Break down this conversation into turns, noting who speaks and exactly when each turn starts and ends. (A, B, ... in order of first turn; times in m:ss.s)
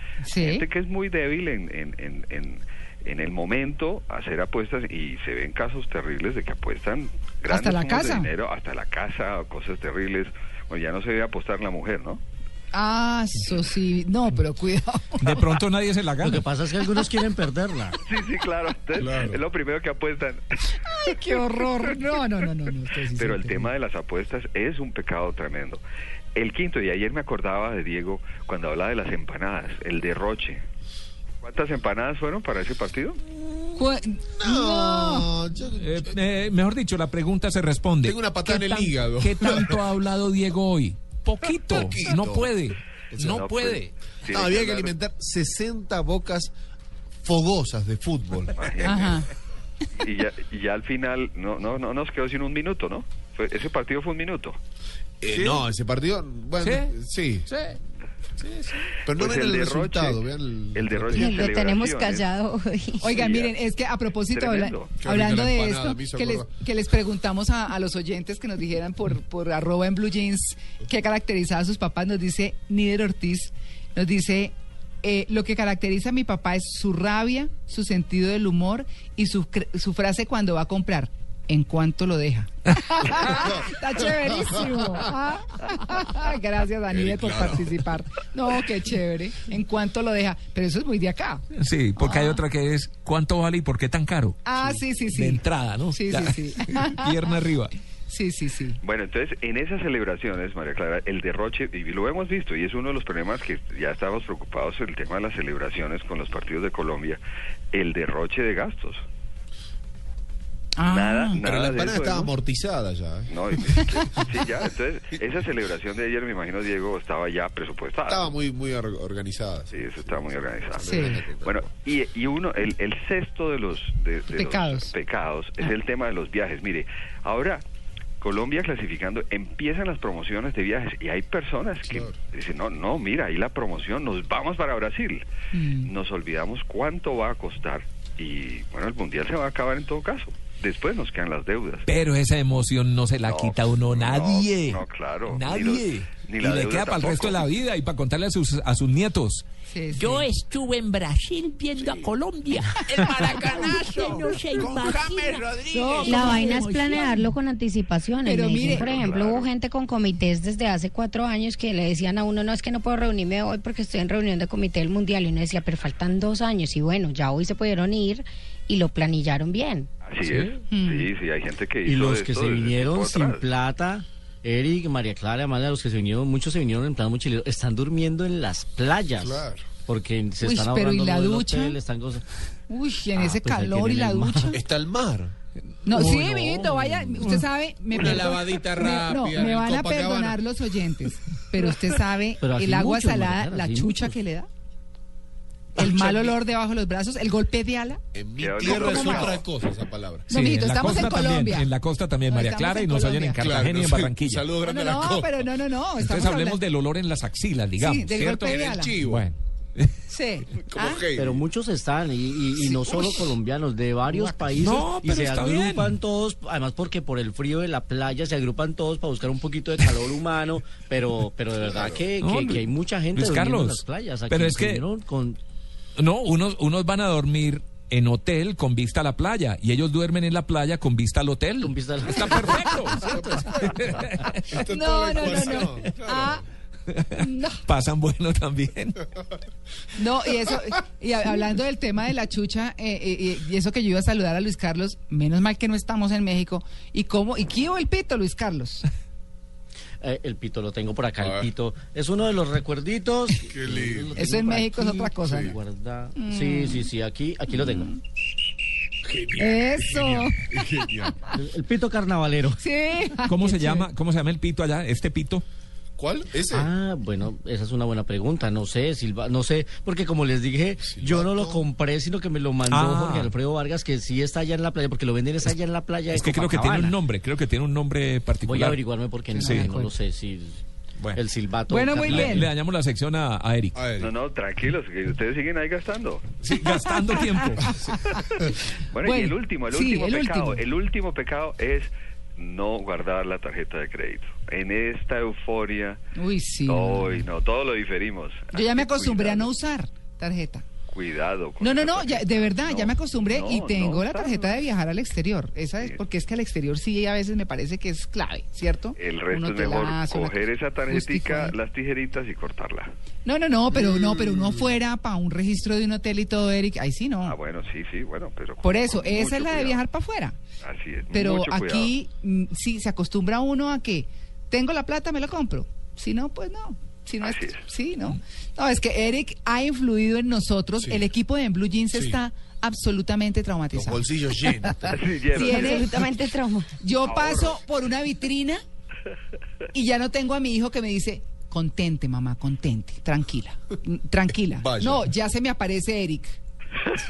0:00.2-0:00.6 A
0:00.4-0:12.2 B
0:07.5-0:08.3 A
0:12.7-0:15.6 A
0:15.2-0:16.4 C
0:16.2-0:18.0 D
0:18.0-0:20.7 B
0:19.0-0:19.4 E
0:20.8-0:23.7 A
0:23.2-0:25.8 B
0:26.3-0:30.6 B
0:31.4-0:33.2 B
0:33.8-0:35.3 A
0:34.3-0:36.1 E
0:35.7-0:43.9 C
0:38.0-0:39.8 E
0:41.7-0:42.5 E
0:43.1-0:43.5 E
0:43.2-0:44.9 B
0:44.3-0:46.5 E
0:47.2-0:48.5 E
0:48.5-0:49.2 B
0:48.8-0:49.3 A
0:50.0-0:54.6 B
0:55.2-0:57.5 E
0:55.3-0:55.6 C
0:56.6-0:57.0 C
0:57.5-0:57.8 C
0:58.4-0:58.7 C
0:59.0-1:01.5 E
0:59.1-1:02.3 B
1:01.1-1:03.1 F
1:03.0-1:31.4 A
1:03.0-1:03.5 B
1:04.3-1:04.9 B
1:05.0-1:06.5 E
1:26.9-1:27.8 E
1:31.5-1:37.7 C
1:32.0-1:32.4 A
1:34.4-1:37.3 A
1:38.1-1:38.8 A
1:38.8-1:47.2 B
1:47.7-1:49.0 B
1:50.8-1:51.4 A
1:50.9-1:52.3 B
1:51.4-1:54.3 E
1:53.3-1:58.3 B
1:58.1-2:01.6 E
1:59.7-2:07.6 B
2:00.8-2:01.2 A
2:04.3-2:04.9 A
2:08.2-2:15.2 B
2:15.5-2:15.9 A
2:15.8-2:21.8 B
2:21.9-2:29.4 C
2:23.2-2:27.5 B
2:29.7-2:30.3 A
2:30.0-2:37.3 G
2:31.8-2:32.1 E
2:33.0-2:33.3 C
2:33.2-2:36.7 E
2:36.1-2:36.5 A
2:36.1-2:49.9 F
2:38.2-2:39.0 A
2:38.6-2:39.5 B
2:50.0-2:53.4 B
2:50.7-2:51.1 A
2:51.8-3:02.2 D
2:59.2-2:59.6 E
3:00.4-3:01.8 A
3:02.7-3:04.6 A
3:03.1-3:04.6 D
3:04.5-3:05.3 E
3:05.8-3:14.5 A
3:05.9-3:06.7 C
3:06.9-3:07.4 D
3:07.9-3:10.4 E
3:12.4-3:14.2 D
3:15.8-3:18.0 A
3:15.8-3:16.4 E
3:18.1-3:20.3 E
3:18.4-3:19.4 B
3:18.6-3:19.5 A
3:20.3-3:21.7 A
3:20.3-3:24.5 C
3:22.3-3:23.5 A
3:23.4-3:25.5 E
3:24.6-3:26.6 A
3:26.0-3:29.9 C
3:27.8-3:29.0 A
3:28.4-3:29.3 E
3:30.1-3:31.0 A
3:30.6-3:31.4 E
3:31.2-3:45.4 D
3:32.6-3:33.0 A
3:34.0-3:34.5 A
3:34.5-3:35.9 C
3:41.6-3:42.0 B
3:42.2-3:44.8 C
3:46.0-3:54.6 C
3:51.6-3:52.8 D
3:52.5-3:53.0 A
3:53.0-3:54.0 E
3:54.5-3:56.4 E
3:54.6-3:56.4 A
3:55.2-3:55.7 C
3:56.9-3:59.0 C
3:57.2-3:57.6 A
4:00.0-4:08.9 A
4:10.0-4:17.9 D
4:11.2-4:11.5 E
4:13.4-4:14.2 E
4:14.1-4:15.5 A
4:15.2-4:15.5 E
4:16.2-4:16.9 A
4:17.6-4:18.0 A
4:19.0-4:21.2 E
4:19.4-4:21.1 A
4:21.3-4:22.6 D
4:22.6-4:23.9 A
4:23.2-4:25.4 C
4:26.0-4:26.7 E
4:26.5-4:37.0 D
4:30.8-4:31.6 E
4:32.7-4:33.3 C
4:36.1-4:38.8 C
4:38.4-4:40.6 D
4:39.3-4:39.9 A
4:39.4-4:39.7 C
4:41.1-4:42.5 D
4:41.7-4:42.5 A
4:42.0-4:43.8 C
4:43.7-4:44.1 E
4:44.0-4:46.2 B
4:46.4-4:47.7 C
4:46.7-4:48.0 A
4:48.1-4:56.0 B
4:49.0-4:50.6 A
4:56.2-4:57.2 A
4:56.6-4:59.5 B
4:58.5-5:00.6 A
5:00.9-5:04.6 B
5:01.6-5:11.5 A
5:09.0-5:12.9 B
5:13.2-5:17.4 A
5:13.7-5:14.7 E
5:17.2-5:19.8 B
5:18.6-5:20.4 A
5:20.6-5:21.9 B
5:21.1-5:36.0 A
5:27.2-5:27.6 B
5:30.8-5:31.0 E
5:31.9-5:32.2 E
5:33.7-5:35.2 E
5:34.9-5:36.1 B
5:35.4-5:36.7 F
5:36.8-5:38.6 A
5:37.0-5:37.6 B
5:39.7-5:46.4 A
5:44.6-5:45.1 E